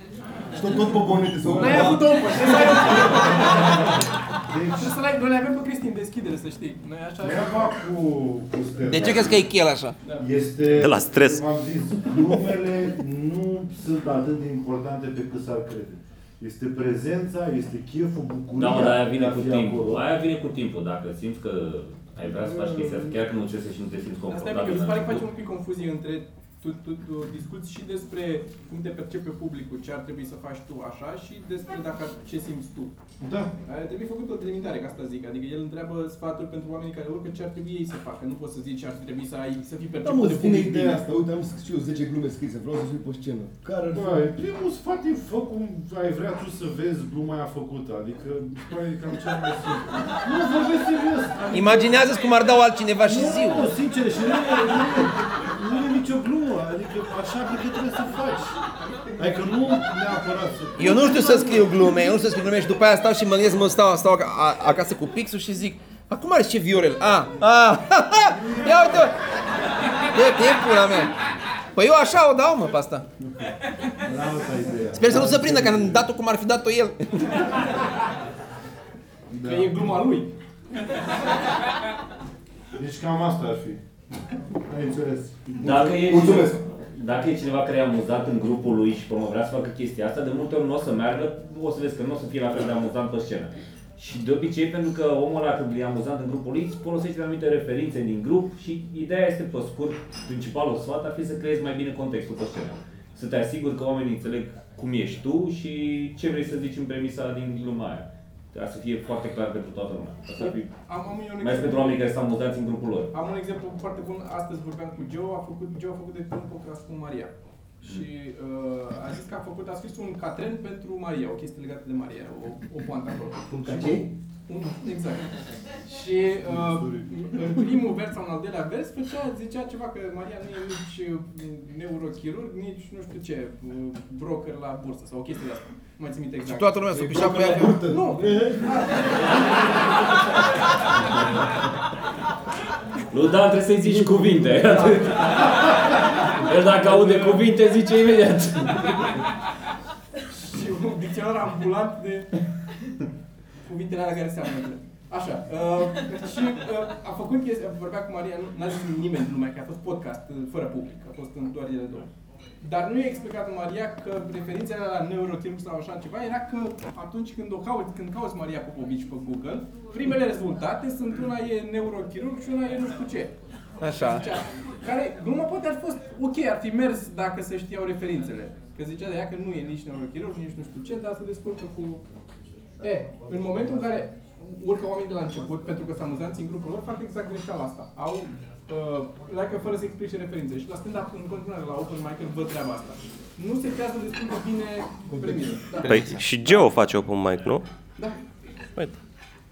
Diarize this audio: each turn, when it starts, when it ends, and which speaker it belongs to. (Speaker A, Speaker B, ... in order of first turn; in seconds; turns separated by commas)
Speaker A: 0.5-2.3, Speaker B: 1.4-5.0, Speaker C: 1.5-4.0, Speaker C: 4.7-7.7, Speaker B: 7.2-9.5, Speaker D: 8.9-9.9, Speaker B: 10.2-20.0, Speaker E: 10.7-11.4, Speaker F: 18.5-25.2, Speaker B: 22.4-23.1, Speaker C: 24.3-32.9, Speaker B: 33.2-33.5, Speaker C: 33.6-41.0, Speaker A: 40.0-44.3, Speaker B: 43.9-52.0, Speaker D: 51.5-53.6, Speaker B: 53.0-58.6, Speaker B: 59.2-61.8, Speaker D: 60.8-69.2, Speaker B: 68.2-69.1, Speaker D: 70.1-71.1, Speaker D: 71.7-73.0, Speaker B: 73.2-76.1, Speaker D: 75.0-77.1, Speaker B: 79.3-80.0, Speaker C: 79.4-80.3, Speaker B: 82.8-83.8, Speaker B: 84.7-85.6, Speaker A: 85.6-86.6, Speaker F: 85.6-110.7, Speaker C: 110.4-112.0, Speaker F: 111.4-113.1, Speaker C: 113.1-125.3, Speaker A: 123.5-124.1, Speaker C: 125.9-139.4, Speaker B: 126.4-127.6, Speaker D: 136.5-137.8, Speaker A: 136.9-138.8, Speaker F: 143.1-149.1, Speaker C: 144.6-145.9, Speaker C: 146.6-147.4, Speaker C: 150.3-152.3, Speaker C: 153.6-162.1, Speaker C: 162.6-173.3, Speaker D: 173.8-174.2, Speaker C: 173.9-182.0, Speaker C: 182.8-196.7, Speaker A: 195.1-195.5, Speaker E: 195.8-197.6